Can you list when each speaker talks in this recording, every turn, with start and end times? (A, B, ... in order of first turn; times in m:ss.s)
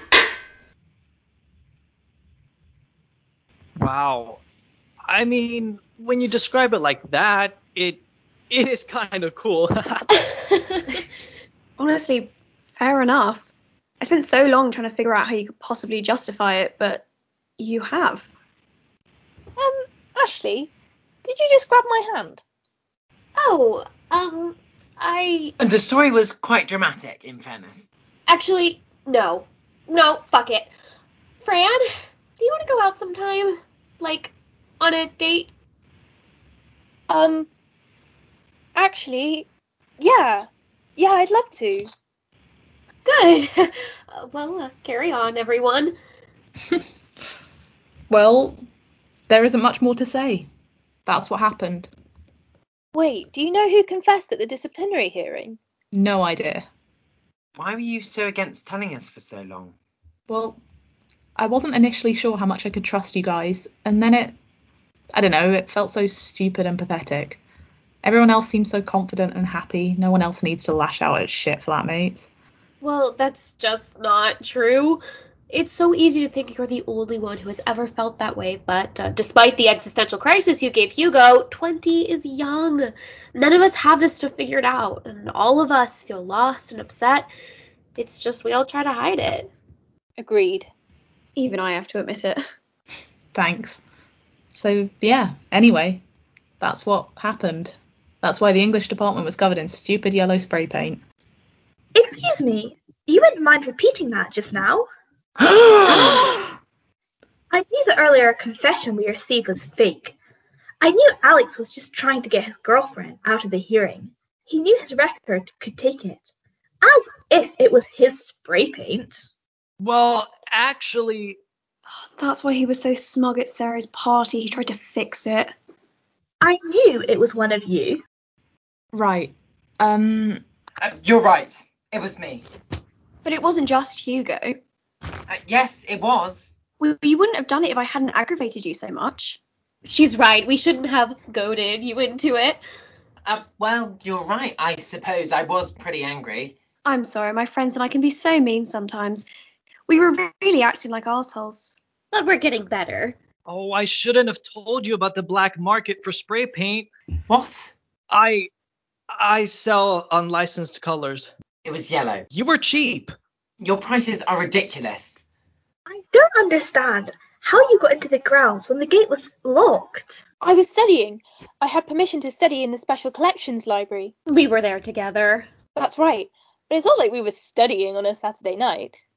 0:03.8-0:04.4 A
0:05.1-0:10.2 A
0:11.8-0:13.5 B
0:14.0-0:17.0 B
0:17.6-0:18.3 B
0:19.6-0:20.7 C
0:21.2-0:22.4 C
0:23.4-0:25.6 D
0:25.6-0:27.9 E
0:28.3-0:30.7 D
0:31.4-0:31.8 D
0:32.4-0:35.5 D
0:37.1-0:37.5 C
0:38.7-0:39.4 C
0:40.0-0:41.9 C
0:43.0-0:45.9 D
0:48.1-0:48.6 F
0:49.3-0:50.5 F
0:51.0-0:51.9 F
0:52.9-0:55.6 C
0:55.9-0:56.6 F
0:57.6-0:59.7 E
1:00.3-1:00.6 F
1:01.4-1:04.3 F
1:05.1-1:07.4 F
1:08.0-1:12.3 F
1:12.8-1:27.3 D
1:28.0-1:29.5 D
1:30.2-1:30.7 C
1:31.4-1:32.4 B
1:33.3-1:33.8 F
1:34.5-1:36.0 F
1:36.6-1:41.0 F
1:41.9-1:44.9 G
1:45.6-1:46.0 E
1:47.5-1:50.1 G
1:50.8-1:56.2 G
1:56.8-1:59.2 G
1:59.8-2:01.4 A
2:02.1-2:05.5 B
2:06.4-2:08.0 G
2:08.9-2:10.4 F
2:10.8-2:12.4 E
2:13.2-2:14.5 B
2:15.3-2:16.5 E
2:16.8-2:19.4 B
2:19.8-2:22.6 D
2:23.2-2:26.5 E
2:26.8-2:29.3 B
2:29.9-2:31.8 B
2:32.1-2:33.2 D
2:33.5-2:36.9 A
2:37.3-2:37.7 E
2:38.1-2:38.5 A
2:39.2-2:41.3 A
2:41.6-2:42.2 E
2:42.3-2:43.1 A
2:43.6-2:45.2 E
2:45.9-2:50.2 G
2:50.4-2:54.1 C
2:54.3-2:55.5 D
2:55.7-2:59.0 C